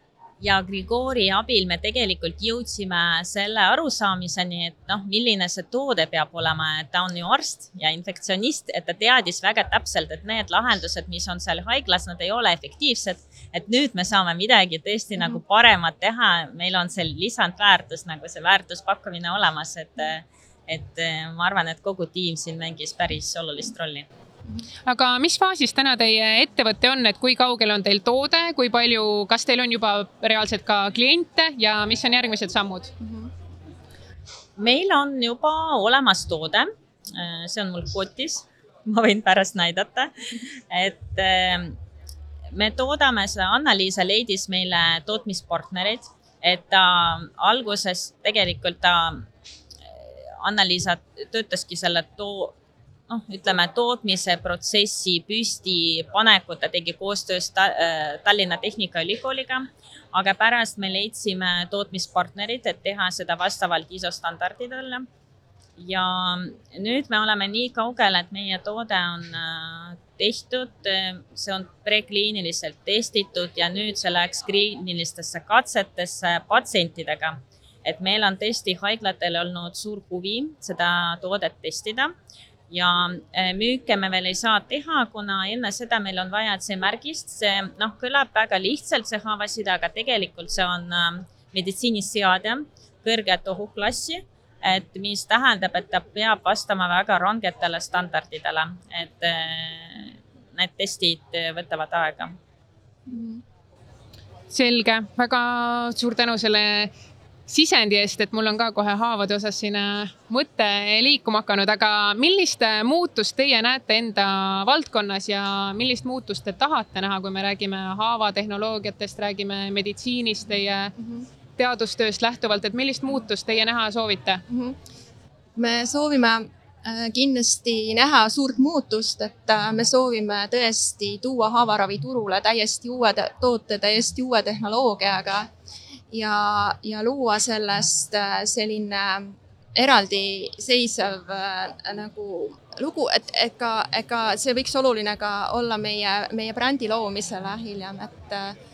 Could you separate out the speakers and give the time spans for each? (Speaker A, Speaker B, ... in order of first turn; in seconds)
Speaker A: 0.4-24.1, 34.6-40.1, 40.7-41.8, 42.5-49.2, 50.4-52.5, 53.1-65.0, 65.8-82.1, 82.7-102.3
Speaker B: 24.9-32.9, 104.5-106.9, 107.5-120.9, 121.6-124.4
Speaker C: 33.0-33.3, 103.1-103.4, 121.0-121.2, 124.5-124.8, 125.5-135.5, 136.1-148.5